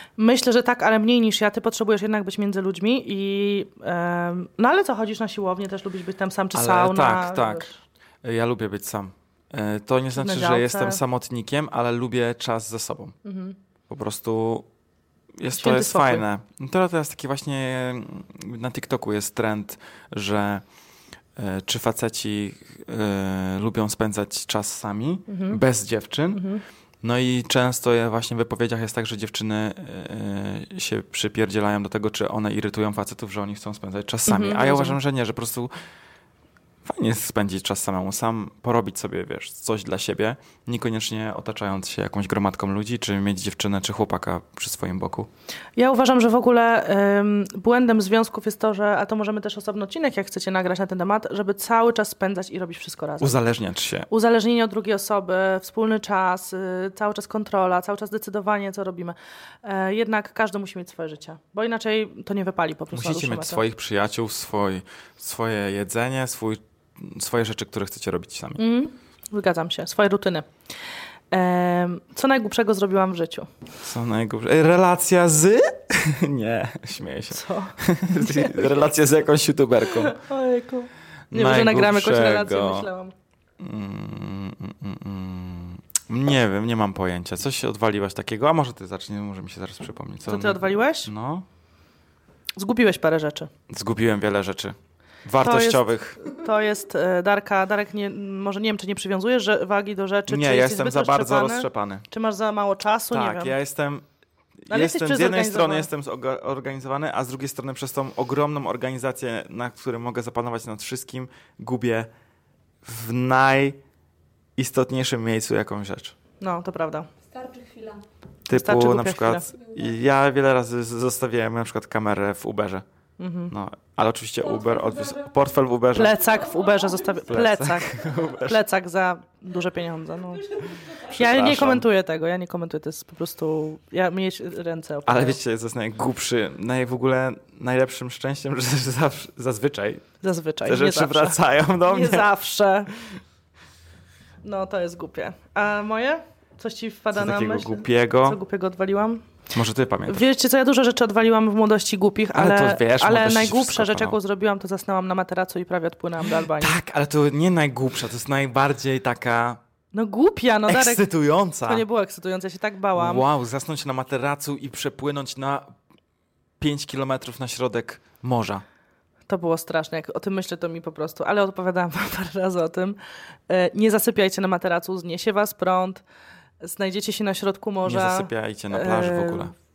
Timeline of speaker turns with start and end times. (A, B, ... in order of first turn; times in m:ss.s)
0:00.2-0:07.8 A
0:06.5-0:07.7 B
0:08.2-0:13.2 B
0:10.1-0:11.0 A
0:13.2-0:13.6 A
0:13.9-0:14.7 B
0:15.4-0:20.6 B
0:15.5-0:16.2 A
0:21.4-0:26.4 B
0:25.3-0:25.6 A
0:26.3-0:26.6 A
0:27.0-0:35.7 B
0:34.3-0:35.0 A
0:36.8-0:45.3 B
0:45.8-0:53.4 A
0:53.2-0:54.1 B
0:54.1-1:03.6 A
1:02.9-1:08.6 B
1:08.6-1:10.5 A
1:11.3-1:13.5 A
1:13.8-1:20.2 B
1:17.3-1:18.7 A
1:19.9-1:23.1 A
1:21.3-1:22.9 B
1:23.6-1:31.5 B
1:30.3-1:31.1 A
1:32.6-1:33.5 A
1:33.7-1:36.2 B
1:35.4-1:43.6 A
1:40.3-1:42.1 B
1:43.1-1:44.0 B
1:44.7-1:52.1 B
1:44.7-1:45.9 A
1:52.8-1:53.8 B
1:54.6-1:56.2 B
1:56.4-1:57.1 A
1:57.3-1:58.0 C
1:58.5-2:02.8 B
1:58.5-1:59.5 A
2:03.2-2:03.5 A
2:03.5-2:06.1 B
2:04.5-2:05.3 C
2:05.9-2:15.4 A
2:06.1-2:07.3 C
2:07.3-2:08.6 B
2:10.7-2:11.0 C
2:11.0-2:11.8 B
2:15.1-2:20.0 B
2:20.2-2:22.9 A
2:20.6-2:22.3 B
2:24.4-2:29.2 A
2:27.1-2:28.4 B
2:29.5-2:30.3 B
2:30.1-2:36.8 A
2:32.3-2:34.2 B
2:36.4-2:39.6 B
2:39.9-2:41.1 A
2:40.7-2:41.8 B
2:41.7-2:43.2 A
2:43.0-2:45.7 B
2:46.6-2:48.6 B
2:49.3-2:53.0 A
2:53.5-2:56.0 A
2:56.6-2:59.5 A
2:57.8-2:59.5 B